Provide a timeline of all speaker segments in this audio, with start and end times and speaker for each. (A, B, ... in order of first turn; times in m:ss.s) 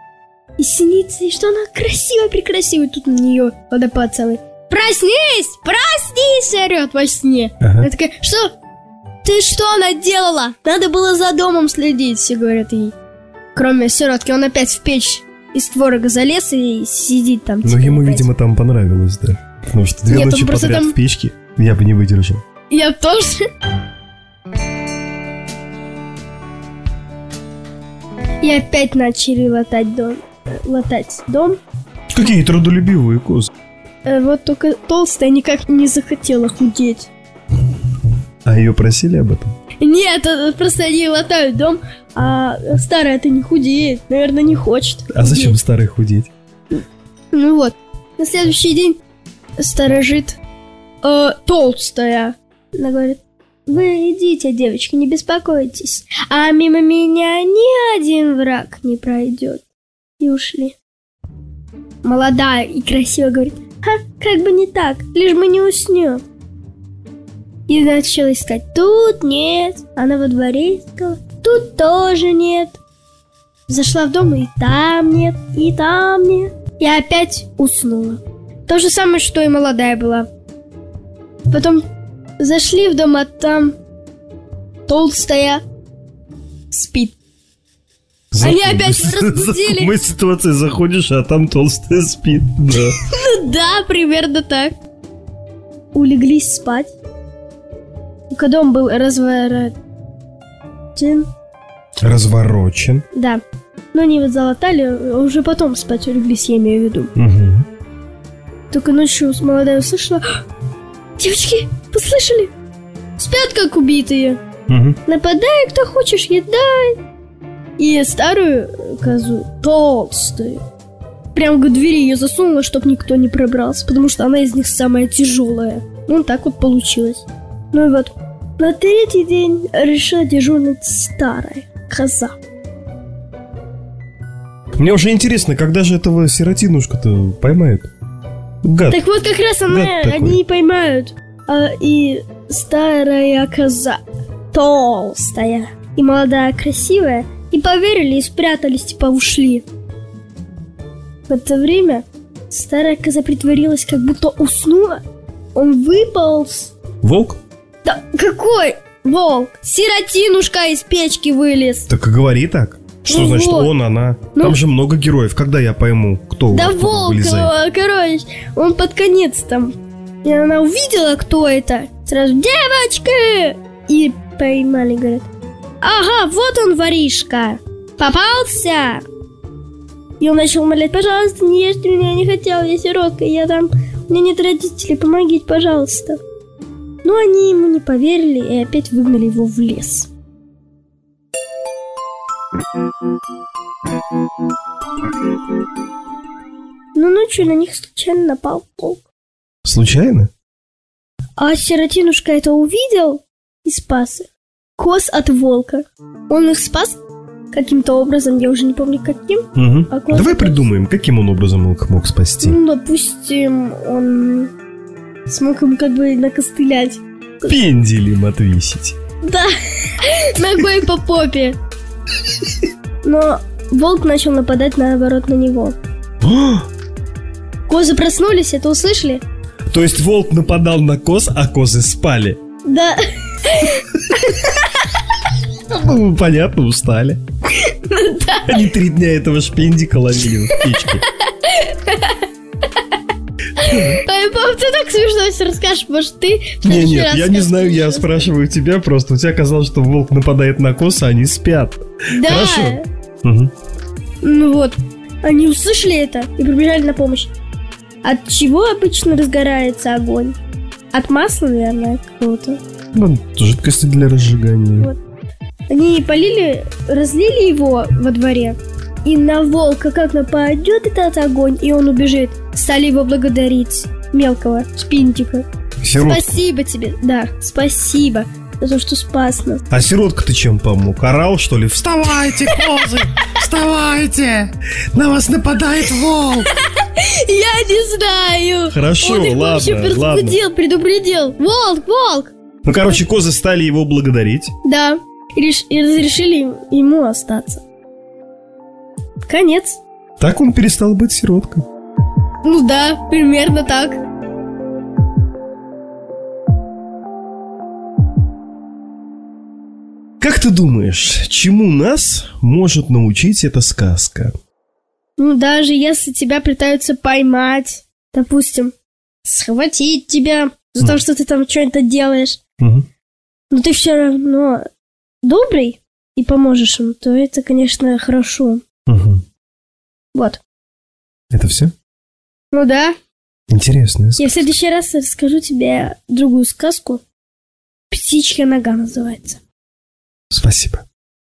0:00.6-0:08.5 A
0:07.6-0:07.9 B
0:09.2-0:12.9 A
0:13.5-0:18.3 A
0:17.6-0:22.4 B
0:20.1-0:21.0 A
0:22.7-0:23.4 A
0:28.4-0:31.6 A
0:32.1-0:33.5 B
0:34.0-0:37.1 A
0:38.4-0:39.5 B
0:39.8-0:45.6 A
0:45.1-0:46.3 B
0:46.7-0:49.0 A
0:49.6-0:50.4 A
0:51.0-0:59.6 A
1:00.2-1:00.8 A
1:02.0-1:06.2 A
1:07.7-1:12.8 A
1:13.7-1:20.3 A
1:21.5-1:21.8 A
1:22.4-1:23.8 A
1:24.9-1:25.6 A
1:26.7-1:27.2 A
1:28.3-1:33.0 B
1:28.4-1:29.9 A
1:33.0-1:34.7 A
1:35.9-1:36.9 A
1:38.3-1:39.7 A
1:40.9-1:41.3 A
1:42.0-1:43.0 B
1:43.1-1:47.1 A
1:47.2-1:47.6 B
1:48.7-1:50.4 A
1:51.2-1:52.5 A
1:53.2-1:54.4 A
1:54.7-1:55.0 B
1:55.0-1:57.0 A
1:57.8-2:00.6 A
2:01.3-2:12.3 A
2:14.8-2:17.9 B
2:18.6-2:19.0 B
2:18.9-2:24.0 A
2:19.7-2:20.4 B
2:24.5-2:29.6 A
2:31.3-2:35.0 A
2:35.5-2:36.7 A
2:37.0-2:37.4 B
2:37.8-2:41.9 A
2:41.9-2:47.5 B
2:43.0-2:43.7 A
2:46.5-2:55.3 A
2:55.8-2:59.0 A
3:00.2-3:06.2 A
3:07.0-3:10.1 A
3:16.9-3:19.0 A
3:19.6-3:20.3 B
3:21.4-3:27.0 A
3:27.5-3:30.6 A
3:29.6-3:32.6 B
3:32.4-3:34.5 A
3:35.3-3:37.5 A
3:37.4-3:39.0 B
3:39.2-3:41.6 A
3:43.0-3:45.8 A
3:46.2-3:46.7 B
3:47.7-3:49.2 A
3:49.7-3:52.4 B
3:52.7-3:54.5 A
3:55.7-3:57.2 B
3:57.5-3:58.6 A
3:58.4-4:01.0 B
4:00.5-4:02.3 A
4:03.6-4:08.3 A
4:03.7-4:04.0 B
4:06.6-4:13.5 B
4:12.1-4:12.8 A
4:14.2-4:17.3 A
4:18.0-4:20.4 A
4:20.9-4:22.6 A
4:22.9-4:24.9 B
4:25.7-4:35.4 A
4:35.8-4:36.4 B
4:36.0-4:39.6 A
4:39.7-4:46.5 B
4:46.5-4:52.3 A
4:48.7-4:50.4 B
4:52.6-4:54.5 B
4:54.6-4:57.6 A
4:59.3-4:59.8 A
5:00.2-5:01.6 B
5:02.4-5:04.0 A
5:10.2-5:14.3 B
5:15.2-5:22.4 A
5:22.6-5:22.8 B
5:23.5-5:24.7 A
5:25.2-5:28.6 A
5:28.9-5:29.2 B
5:30.1-5:30.4 A
5:31.3-5:31.7 B
5:32.5-5:32.9 A
5:33.5-5:34.4 B
5:34.2-5:37.0 A
5:37.9-5:39.4 A
5:40.3-5:40.9 B